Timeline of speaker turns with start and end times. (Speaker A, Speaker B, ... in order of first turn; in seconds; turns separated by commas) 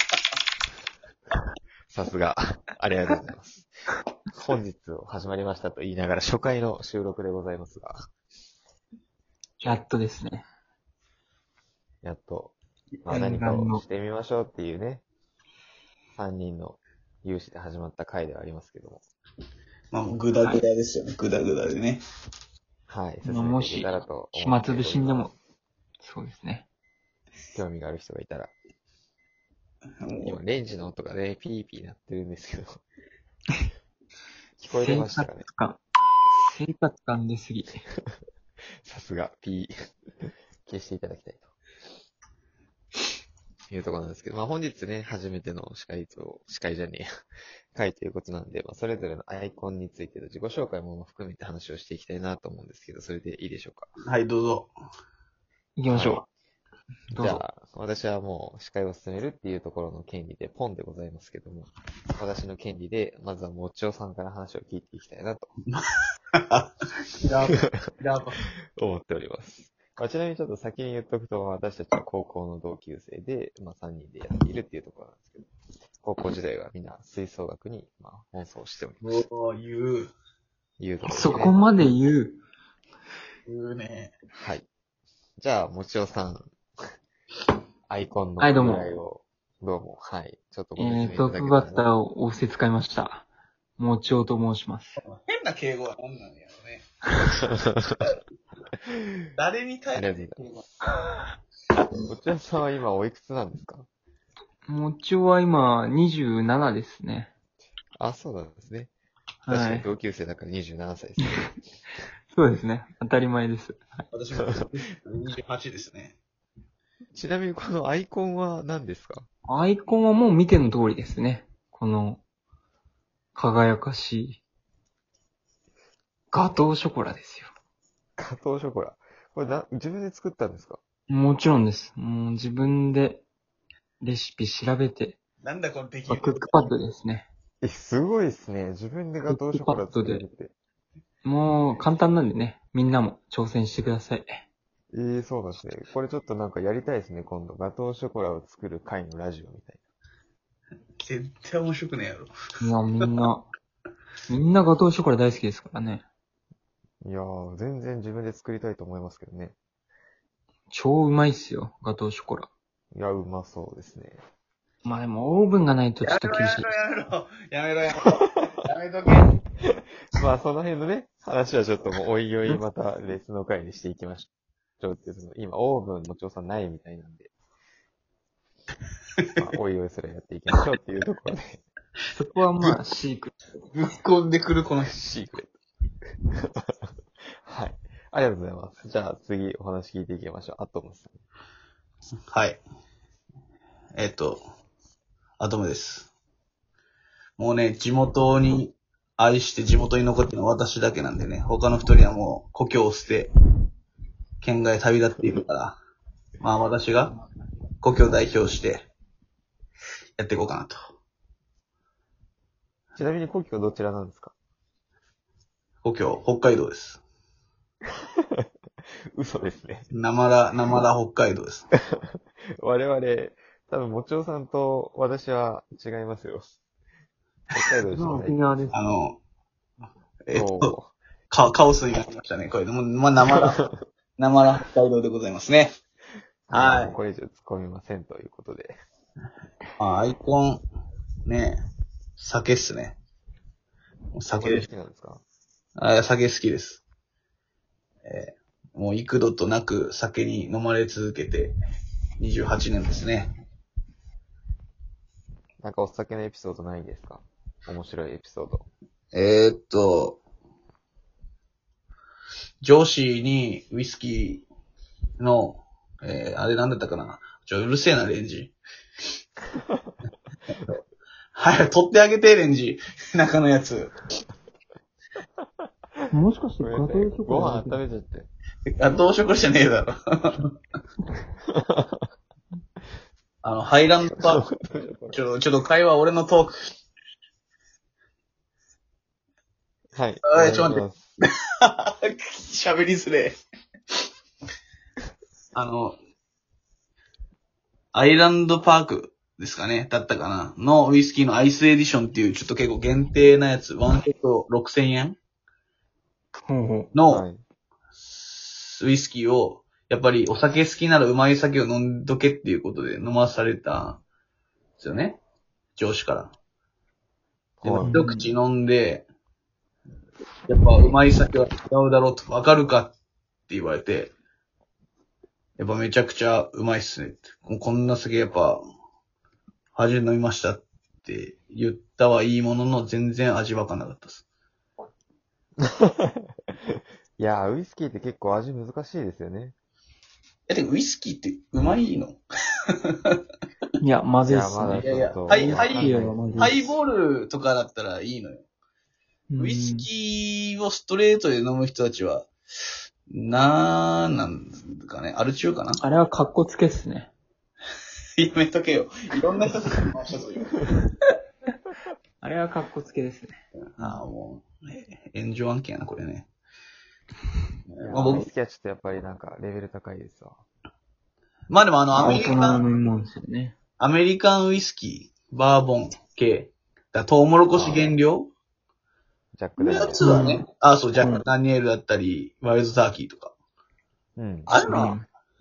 Speaker A: 1.9-3.7, Speaker A: 4.3-8.0, Speaker B: 9.6-10.4, Speaker A: 12.0-15.1, Speaker B: 13.1-13.8, Speaker A: 16.1-19.0, Speaker C: 19.9-22.0, Speaker A: 22.9-25.3, Speaker B: 23.2-25.3, Speaker B: 26.0-26.7, Speaker A: 27.6-28.5, Speaker C: 30.0-30.4, Speaker A: 30.2-32.8, Speaker A: 34.6-35.5, Speaker B: 34.7-35.8, Speaker B: 36.4-37.8, Speaker A: 38.8-39.7, Speaker A: 40.6-41.5, Speaker A: 43.7-47.0, Speaker A: 47.8-53.9, Speaker C: 54.1-54.7, Speaker B: 55.8-56.2, Speaker A: 55.9-56.2, Speaker B: 57.1-57.4, Speaker A: 57.1-65.5, Speaker C: 66.4-68.4, Speaker A: 68.8-75.5, Speaker A: 76.0-79.2, Speaker C: 79.0-80.1, Speaker A: 80.8-81.6, Speaker B: 81.0-82.4, Speaker C: 83.5-84.1, Speaker A: 84.3-84.7, Speaker A: 85.4-86.5, Speaker A: 87.9-91.9, Speaker B: 88.4-89.0, Speaker B: 90.8-93.3, Speaker B: 93.8-95.0, Speaker C: 95.0-96.8, Speaker C: 99.4-100.2, Speaker A: 100.0-100.7, Speaker A: 102.0-103.9, Speaker B: 104.7-107.3, Speaker A: 108.0-108.9, Speaker B: 109.5-109.9, Speaker A: 109.5-111.6, Speaker B: 112.3-113.8, Speaker C: 114.1-116.2, Speaker A: 117.1-119.3, Speaker B: 119.5-122.2, Speaker B: 123.3-124.4, Speaker B: 126.3-127.5, Speaker A: 128.2-130.8, Speaker B: 131.1-133.2, Speaker B: 134.0-135.2, Speaker C: 135.4-136.7, Speaker B: 136.1-137.3, Speaker A: 137.6-140.5, Speaker B: 139.3-140.2, Speaker B: 141.2-144.4, Speaker A: 144.9-149.8, Speaker C: 151.0-152.3, Speaker B: 152.6-153.5, Speaker B: 154.3-156.0, Speaker A: 157.0-159.6, Speaker B: 160.7-162.5, Speaker A: 162.9-164.2, Speaker B: 164.8-166.7, Speaker C: 166.0-169.4, Speaker A: 170.2-174.3, Speaker A: 174.8-177.3, Speaker A: 179.4-181.6, Speaker B: 182.1-183.4, Speaker C: 183.7-184.9, Speaker A: 184.8-185.6, Speaker A: 186.6-186.9, Speaker A: 187.5-191.2, Speaker C: 192.3-192.6, Speaker C: 194.0-194.4, Speaker C: 195.4-196.1, Speaker C: 197.4-203.3, Speaker C: 204.4-205.8, Speaker C: 206.4-207.1, Speaker C: 207.8-208.9, Speaker C: 210.2-210.8, Speaker A: 213.0-214.3, Speaker C: 215.8-217.0, Speaker A: 219.2-219.9, Speaker C: 219.9-221.7, Speaker A: 221.9-226.5, Speaker A: 227.5-228.4, Speaker B: 227.9-228.8, Speaker C: 228.7-229.2, Speaker C: 230.3-230.7, Speaker A: 230.3-230.9, Speaker C: 231.3-233.6, Speaker C: 234.2-235.7, Speaker A: 236.5-238.8, Speaker C: 236.5-236.9, Speaker C: 239.8-240.6, Speaker C: 241.3-241.6, Speaker C: 242.2-243.0, Speaker C: 244.2-244.7, Speaker A: 244.3-245.2, Speaker C: 245.8-246.8, Speaker C: 248.1-251.6, Speaker C: 252.2-253.3, Speaker A: 255.6-258.7, Speaker C: 259.1-260.2, Speaker C: 262.6-264.5, Speaker C: 265.2-268.6, Speaker A: 269.7-269.9, Speaker C: 271.4-273.9, Speaker B: 276.1-277.8, Speaker A: 276.6-278.3, Speaker C: 278.8-279.9, Speaker A: 281.6-282.1, Speaker C: 283.4-284.4, Speaker A: 284.2-285.2, Speaker C: 285.1-286.7, Speaker A: 289.9-291.0, Speaker C: 290.3-290.9, Speaker C: 291.6-293.4, Speaker C: 295.6-296.0, Speaker C: 297.9-305.2, Speaker B: 306.5-306.9, Speaker C: 306.9-307.2, Speaker A: 307.1-307.4, Speaker C: 308.0-314.0, Speaker C: 314.8-315.2, Speaker C: 315.8-316.3, Speaker A: 317.6-318.0, Speaker C: 317.6-319.1, Speaker B: 317.8-318.3, Speaker C: 320.5-322.9, Speaker C: 323.5-324.1, Speaker C: 325.6-328.6, Speaker C: 329.8-334.3, Speaker A: 335.6-339.6, Speaker C: 340.5-342.2, Speaker B: 343.8-346.6, Speaker A: 344.2-346.5, Speaker C: 344.7-348.4, Speaker B: 349.3-349.9, Speaker C: 349.4-352.3, Speaker C: 353.1-355.8, Speaker B: 355.8-357.1, Speaker C: 358.2-360.5, Speaker B: 362.2-364.0, Speaker C: 363.8-366.3, Speaker C: 367.7-368.3, Speaker A: 367.8-370.4, Speaker C: 371.5-372.7, Speaker B: 371.9-373.6, Speaker C: 373.8-378.3, Speaker A: 377.5-378.0, Speaker A: 379.4-380.1, Speaker C: 379.6-383.3, Speaker B: 380.0-380.4, Speaker B: 381.0-381.2, Speaker A: 384.2-384.5, Speaker C: 384.5-385.0, Speaker B: 384.6-385.1